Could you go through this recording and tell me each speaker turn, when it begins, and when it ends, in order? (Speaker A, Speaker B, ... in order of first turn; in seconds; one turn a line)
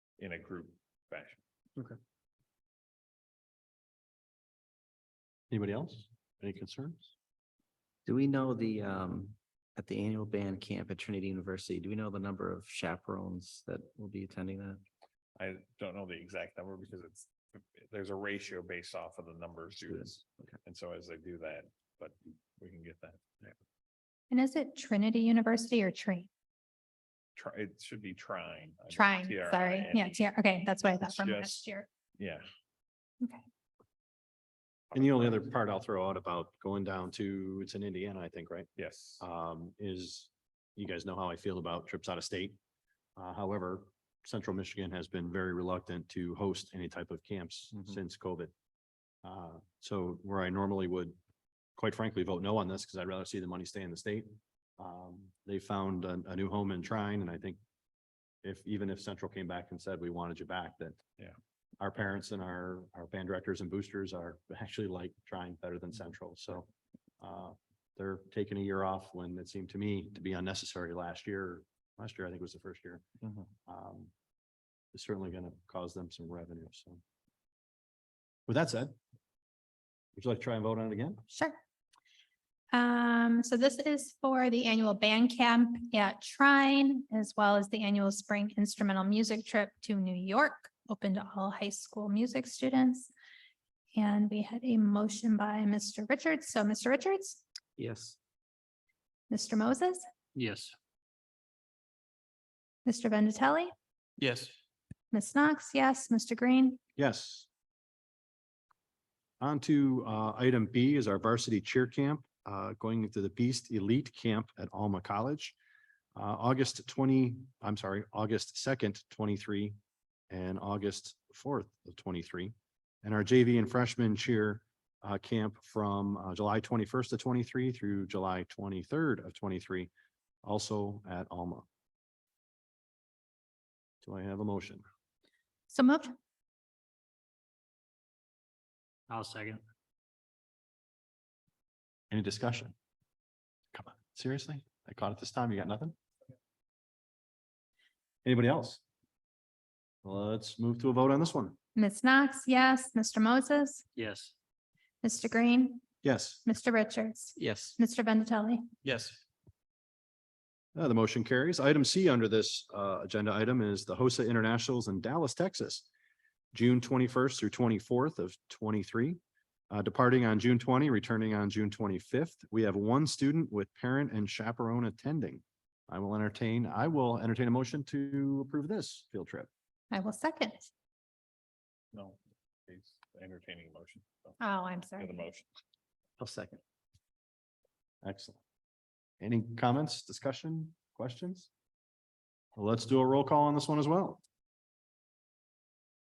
Speaker A: 0.2-1.4
Speaker B: 5.5-7.1
Speaker C: 8.1-14.8
Speaker A: 15.4-23.5
Speaker D: 24.3-26.3
Speaker A: 27.4-30.2
Speaker D: 28.9-31.9
Speaker A: 31.0-32.4
Speaker A: 34.9-35.3
Speaker B: 34.9-42.6
Speaker A: 38.8-39.2
Speaker B: 43.1-48.5
Speaker B: 49.2-51.1
Speaker B: 51.8-57.6
Speaker B: 58.4-61.0
Speaker B: 61.8-66.7
Speaker B: 67.2-73.0
Speaker B: 73.7-74.1
Speaker B: 74.9-77.0
Speaker B: 78.5-78.9
Speaker B: 80.1-81.2
Speaker D: 81.3-81.6
Speaker D: 82.7-93.1
Speaker D: 93.9-97.4
Speaker C: 97.8-98.2
Speaker D: 99.3-100.0
Speaker E: 100.3-100.7
Speaker D: 102.8-103.7
Speaker E: 104.2-104.5
Speaker D: 105.1-106.8
Speaker B: 107.0-107.5
Speaker B: 109.4-115.5
Speaker B: 116.1-119.8
Speaker B: 120.3-129.9
Speaker B: 130.4-131.7
Speaker B: 134.0-134.8
Speaker D: 135.7-136.1
Speaker E: 139.1-139.6
Speaker B: 142.1-142.7
Speaker B: 143.7-145.9
Speaker B: 148.2-148.8
Speaker B: 150.0-151.6
Speaker D: 151.7-153.8
Speaker E: 153.9-154.3
Speaker D: 155.0-155.8
Speaker B: 156.0-156.4
Speaker D: 156.4-158.6
Speaker C: 157.4-157.8
Speaker E: 158.8-159.2
Speaker B: 160.7-165.8
Speaker B: 166.5-179.5
Speaker D: 179.9-180.7
Speaker A: 181.9-184.4
Speaker D: 184.4-185.1
Speaker A: 185.0-185.5
Speaker C: 186.2-186.6
Speaker B: 188.0-188.4
Speaker B: 189.2-191.5
Speaker B: 192.5-194.2